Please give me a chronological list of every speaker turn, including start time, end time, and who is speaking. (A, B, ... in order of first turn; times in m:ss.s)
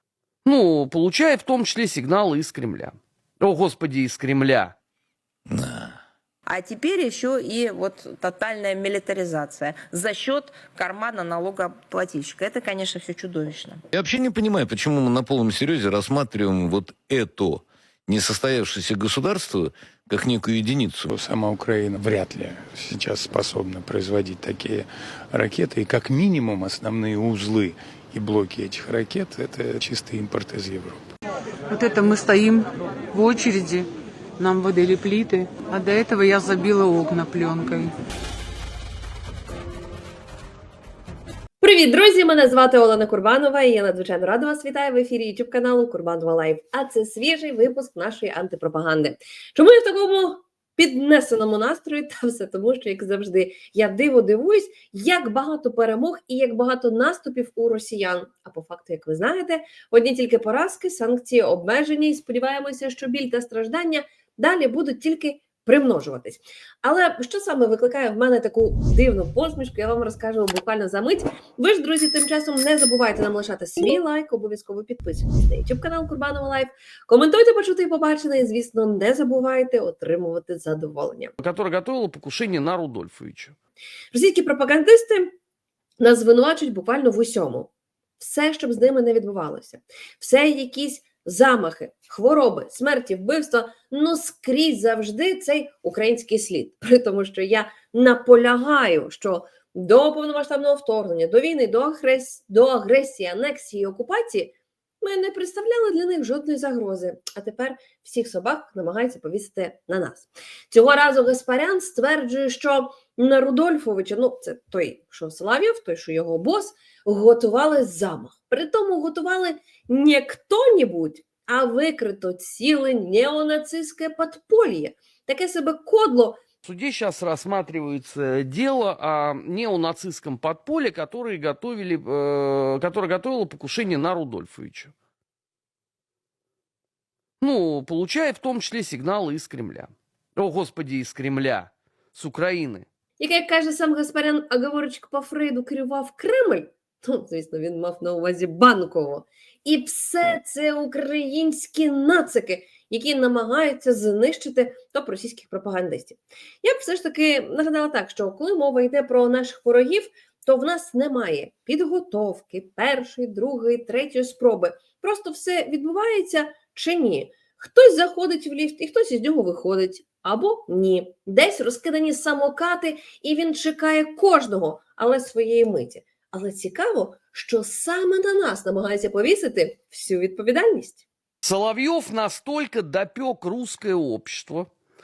0:00.4-0:04.7 A
0:05.5-0:05.9 B
0:06.5-0:13.8 C
0:13.9-0:21.1 B
0:21.1-0:31.0 D
0:31.7-0:33.9 E
0:34.4-0:37.9 E
0:41.6-1:21.3 F
1:21.4-1:23.6 A
1:24.1-1:25.3 F
1:26.0-2:06.4 F
2:06.6-2:14.9 A
2:17.4-2:22.9 A
2:23.2-3:01.0 F
3:01.4-3:04.7 A